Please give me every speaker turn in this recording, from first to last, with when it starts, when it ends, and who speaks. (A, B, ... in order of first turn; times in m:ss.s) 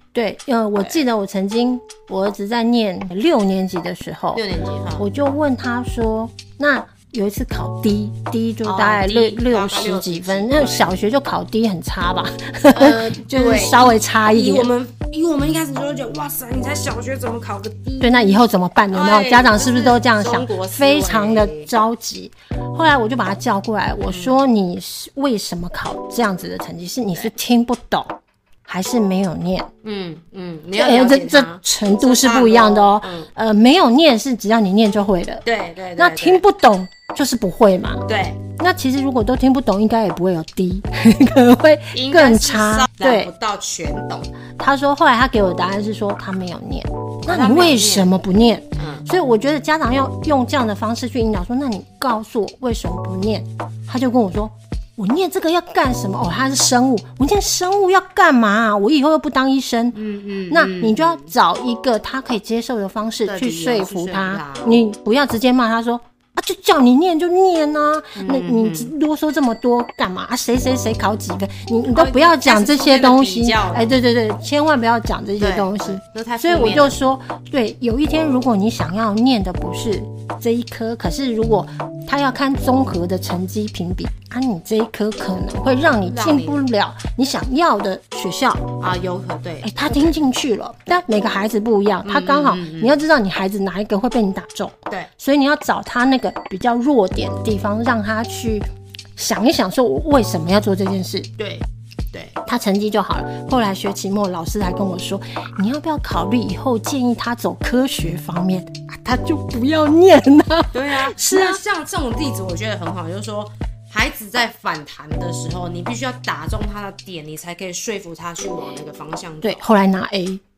0:00.1-0:04.4 A
0:04.3-0:05.1 B
0:05.0-0:14.7 A
0:08.6-0:10.9 B
0:12.7-0:21.7 B
0:18.0-0:29.7 A
0:24.1-0:24.4 B
0:29.8-0:33.3 B
0:30.7-0:35.4 A
0:35.4-0:36.4 B
0:36.0-0:38.0 A
0:38.1-0:38.4 B
0:38.6-0:43.3 A
0:41.9-0:44.3 B
0:44.6-1:00.0 A
0:47.3-0:48.1 B
0:48.8-0:49.1 B
0:59.9-1:01.3 B
1:00.5-1:28.7 A
1:03.2-1:04.8 B
1:08.2-1:08.9 B
1:11.9-1:14.0 B
1:15.4-1:17.0 B
1:26.0-1:26.7 B
1:28.8-1:30.2 B
1:29.6-1:41.3 A
1:32.0-1:33.0 B
1:41.4-1:42.4 B
1:42.4-1:51.6 A
1:50.7-1:59.6 B
1:59.4-2:00.4 A